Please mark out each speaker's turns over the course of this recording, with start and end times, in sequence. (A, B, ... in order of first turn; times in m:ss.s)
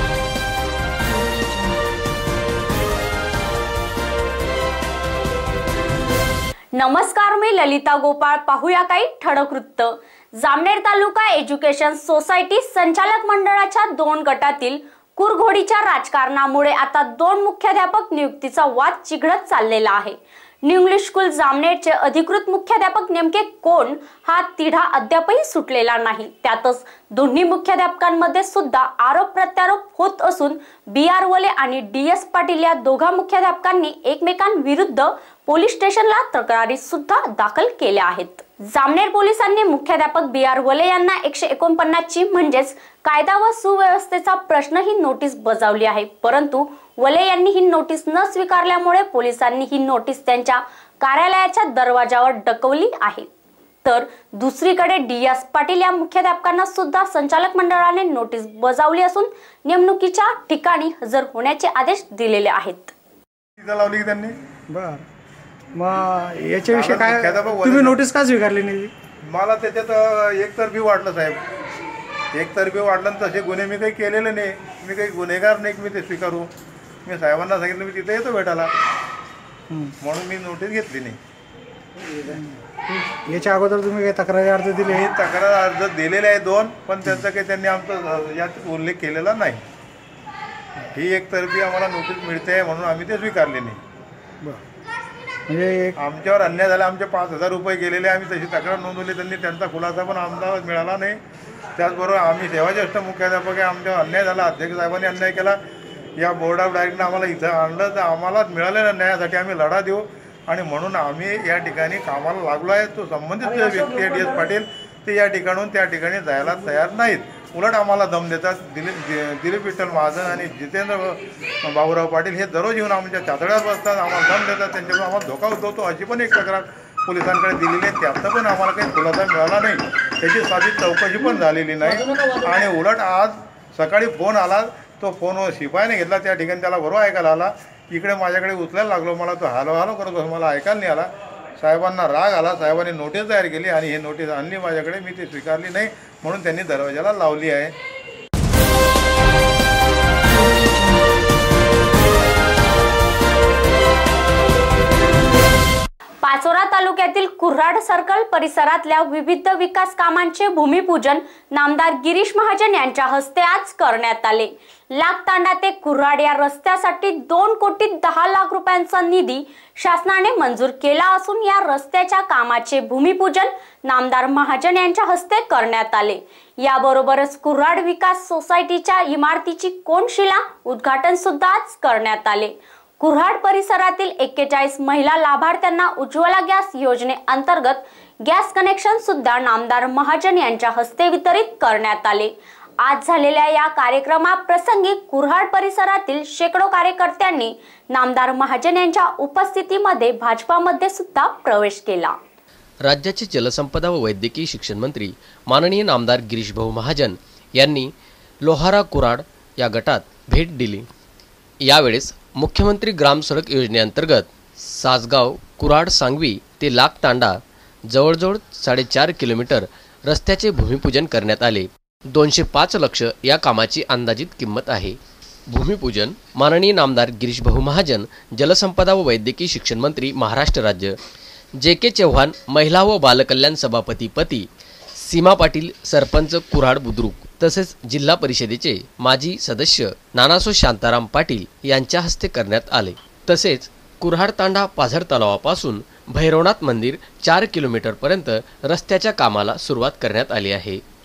0:06.7-0:53.3 A
0:53.8-1:02.9 A
1:03.6-1:04.3 B
1:04.7-1:05.0 C
1:05.7-1:08.9 C
1:06.7-1:08.0 B
1:09.3-1:11.4 B
1:12.4-1:16.5 B
1:17.0-1:18.7 B
1:20.0-1:21.2 B
1:23.2-1:25.1 C
1:24.8-1:29.6 B
1:30.9-1:33.8 B
1:35.5-1:35.9 C
1:36.0-1:41.2 B
1:41.8-1:45.6 B
1:46.2-2:21.1 B
2:21.6-2:27.7 B
2:36.2-3:22.2 A
3:22.8-3:27.9 D
3:28.4-3:30.8 D
3:31.6-3:37.4 D
3:37.9-3:45.0 D
3:45.5-3:50.9 D
3:51.6-3:54.4 D
3:55.0-4:10.8 D